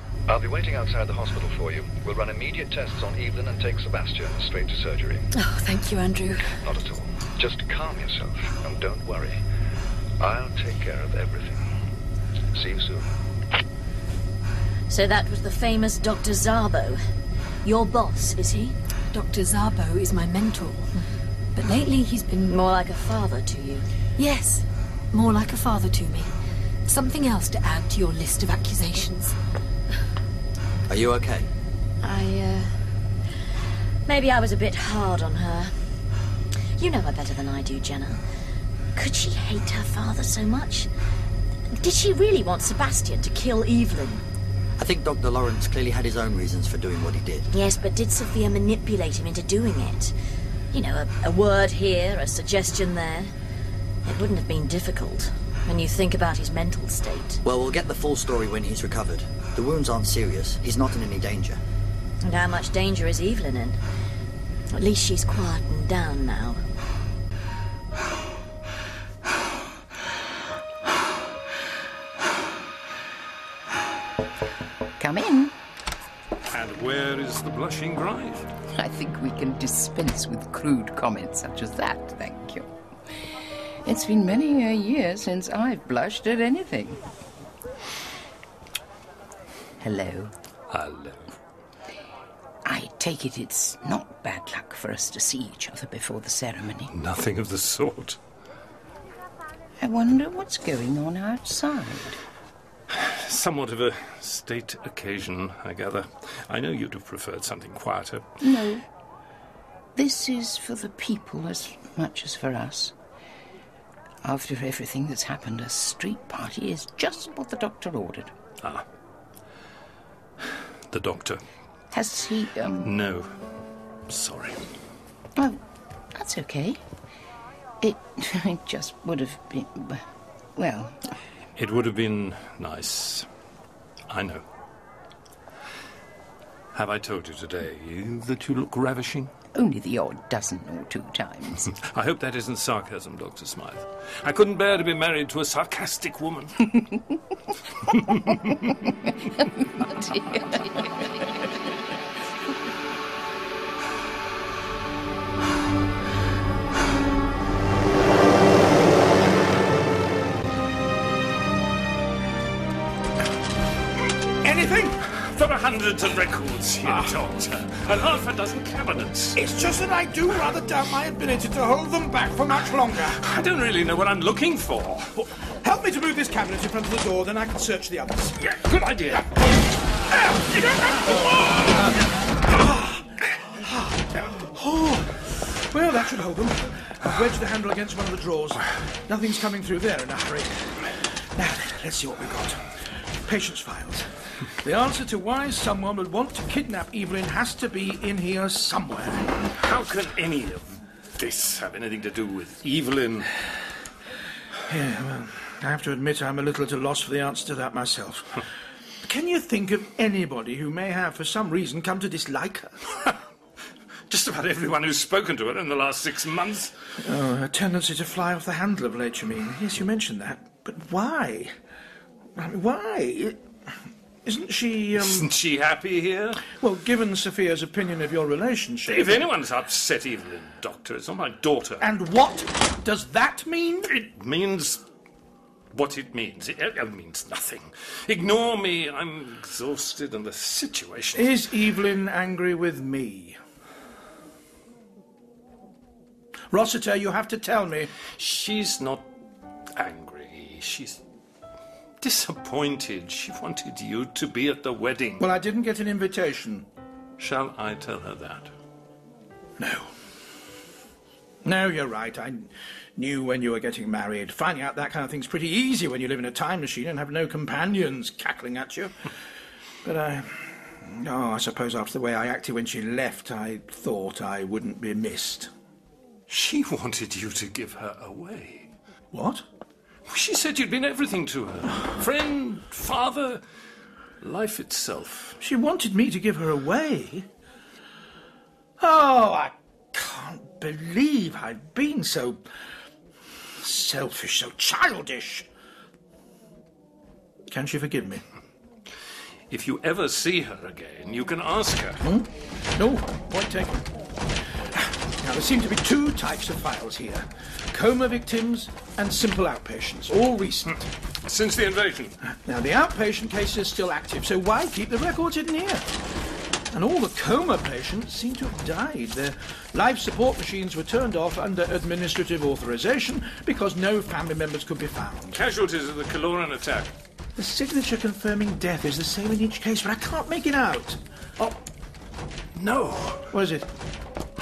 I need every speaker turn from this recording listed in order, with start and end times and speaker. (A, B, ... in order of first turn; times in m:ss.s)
0:00.3-0:05.3 A
0:05.3-0:06.5 B
0:06.6-0:09.4 A
0:10.2-0:11.6 A
0:12.6-0:13.1 A
0:14.9-0:17.0 C
0:17.6-0:18.8 C
0:19.1-0:20.9 B
0:21.6-0:22.6 B
0:22.5-0:23.9 C
0:24.2-0:26.3 B
0:26.9-0:29.4 B
0:30.9-0:31.5 D
0:32.0-0:32.7 C
0:34.1-0:35.8 C
0:36.8-0:38.2 C
0:39.0-0:40.9 C
0:41.7-0:44.2 C
0:44.8-0:47.5 D
0:47.5-0:50.1 C
0:50.7-0:53.3 C
0:54.0-0:57.4 C
0:57.4-1:01.6 D
1:02.2-1:03.8 C
1:04.7-1:06.6 C
1:15.0-1:15.5 E
1:16.5-1:18.5 F
1:18.7-1:22.7 E
1:23.8-1:27.0 E
1:29.8-1:30.3 E
1:30.7-1:31.3 F
1:32.6-1:36.9 E
1:36.9-1:38.2 F
1:39.8-1:42.2 E
1:42.9-1:48.3 F
1:48.4-1:48.8 E
1:50.0-1:53.0 E
1:54.2-1:58.3 E
2:00.9-2:01.4 F
2:01.9-2:02.9 E
2:02.8-2:03.3 F
2:04.1-2:04.6 F
2:06.2-2:06.8 E
2:07.8-2:10.0 E
2:10.6-2:11.0 E
2:11.6-2:13.3 F
2:14.1-2:14.4 F
2:16.7-2:19.3 F
2:19.5-2:21.7 E
2:21.7-2:26.6 F
2:27.9-2:28.6 F
2:29.8-2:31.0 E
2:44.4-2:45.0 G
2:45.2-2:49.4 F
2:46.8-2:47.2 G
2:49.4-2:53.2 G
2:53.2-2:55.1 F
2:55.2-2:58.4 G
2:58.4-2:59.3 F
3:00.1-3:12.6 G
3:00.4-3:02.0 F
3:13.3-3:14.1 G
3:14.6-3:19.3 G
3:19.6-3:23.3 F
3:24.7-3:28.4 G
3:29.0-3:32.8 G
3:34.1-3:36.7 F
3:37.0-3:41.5 G
3:42.4-3:43.4 G
3:44.2-3:45.3 G
3:45.0-3:46.5 F
3:46.5-3:49.3 G
3:48.9-3:51.9 F
3:51.8-3:53.9 G
3:53.9-3:54.8 F
3:55.7-4:01.4 F
4:01.2-4:03.4 G
4:06.5-4:07.9 G
4:08.2-4:09.1 F
4:09.8-4:11.0 F
4:12.0-4:15.3 F
4:15.2-4:16.7 G
4:17.2-4:18.5 F
4:19.6-4:19.9 G
4:21.4-4:29.0 G
4:29.8-4:35.5 G
4:36.3-4:38.7 F
4:39.1-4:39.4 G
4:40.1-4:43.4 F
4:44.2-4:45.4 F
4:45.4-4:47.3 G
4:48.8-4:52.4 G
4:53.6-4:55.5 G
4:57.5-4:58.2 G
4:59.5-5:02.0 F
5:02.0-5:03.9 G
5:04.7-5:10.8 G
5:11.2-5:12.2 F
5:12.4-5:15.9 G
5:16.7-5:25.4 G
5:25.4-5:26.9 F
5:27.4-5:31.6 G
5:32.6-5:33.3 F
5:33.3-5:33.7 G